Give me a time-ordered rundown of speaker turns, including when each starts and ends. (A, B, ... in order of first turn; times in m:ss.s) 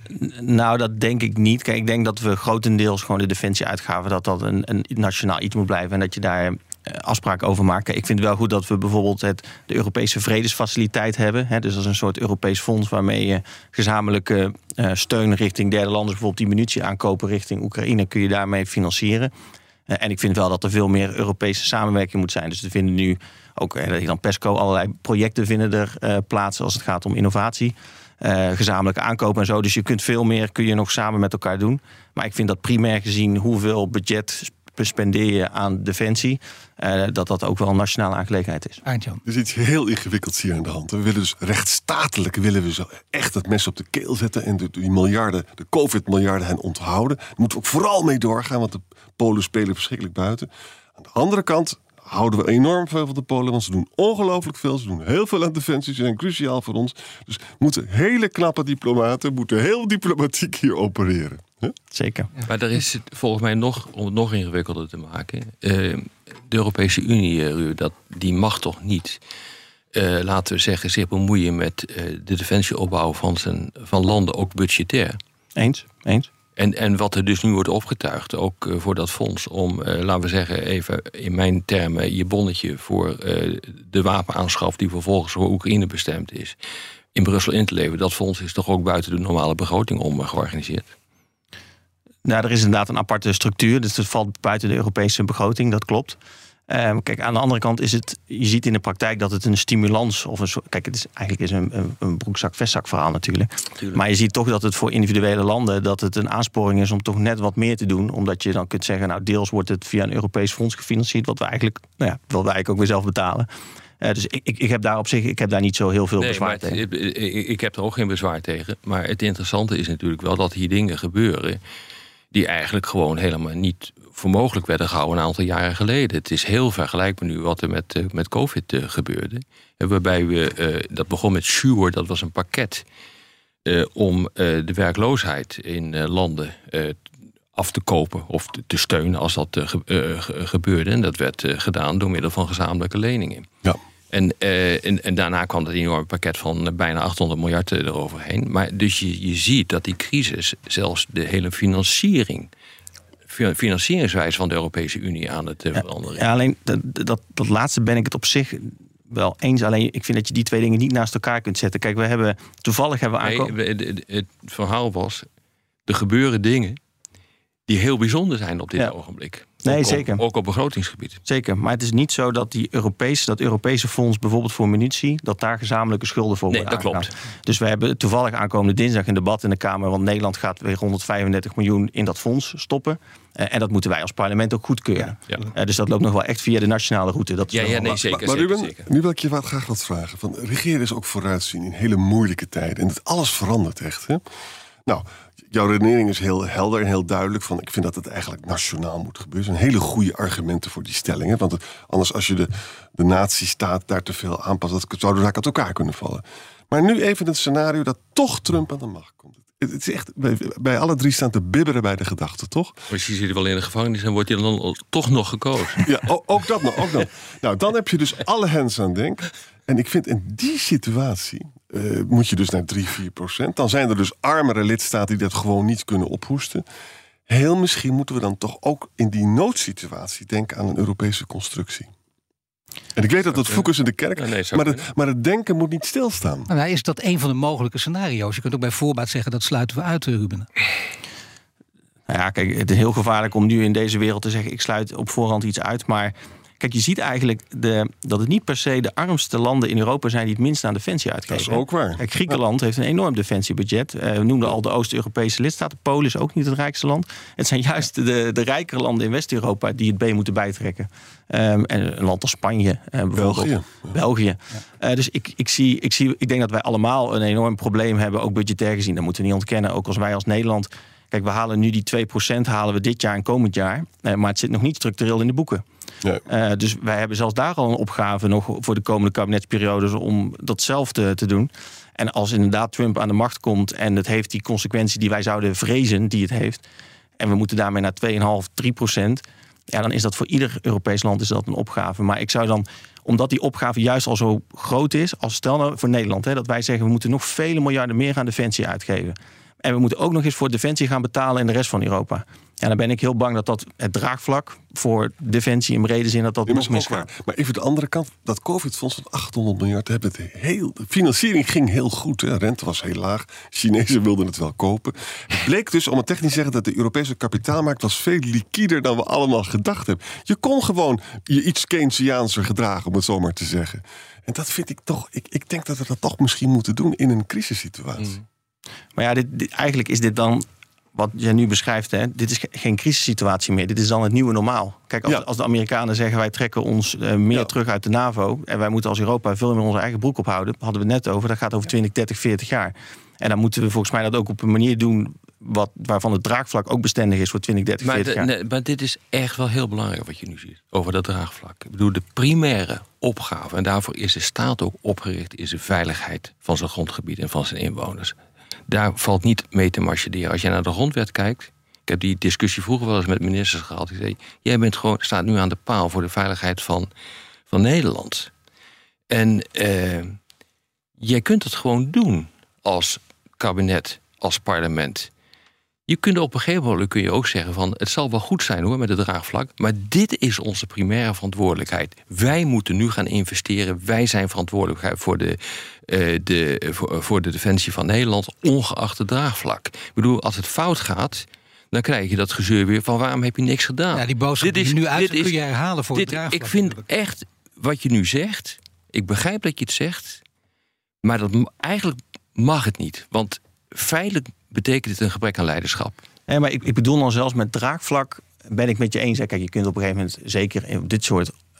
0:00.1-0:19.3 A
0:19.9-0:38.8 A
0:38.8-0:39.2 B
0:39.2-1:01.8 C
1:01.9-1:02.3 A
1:02.4-1:09.2 D
1:09.9-1:15.2 D
1:15.6-1:16.3 A
1:16.6-1:26.6 D
1:27.1-1:30.9 D
1:32.2-1:36.2 A
1:36.7-1:53.5 A
1:54.0-1:56.8 A
1:56.2-2:01.6 D
2:02.3-2:12.8 D
2:13.6-2:17.0 D
2:17.5-2:23.5 D
2:24.1-2:32.5 D
2:33.3-2:36.2 D
2:35.8-2:43.5 A
2:43.2-2:45.3 D
2:45.8-2:46.8 D
2:47.7-2:51.2 D
2:49.6-2:50.2 A
2:51.2-3:08.0 A
2:56.5-2:57.1 D
3:07.5-3:08.9 D
3:08.0-3:14.2 C
3:14.8-3:32.7 C
3:32.9-3:35.9 D
3:35.8-3:46.6 C
3:47.3-3:51.9 C
3:53.0-3:56.5 C
3:53.4-3:54.8 D
3:56.5-4:00.5 B
4:02.1-4:35.6 A
4:11.3-4:12.4 C
4:23.1-4:24.0 C
4:36.3-4:46.6 A
4:47.2-5:07.1 A
5:06.4-5:28.2 C
5:29.0-5:48.3 A
5:47.8-5:58.1 D
5:58.7-6:06.9 D
6:07.5-6:08.3 D
6:09.1-6:10.2 D
6:11.0-6:15.1 D
6:15.9-6:35.4 D
6:33.9-6:36.8 B
6:35.9-6:40.2 D
6:41.0-6:46.0 D
6:46.3-6:51.3 A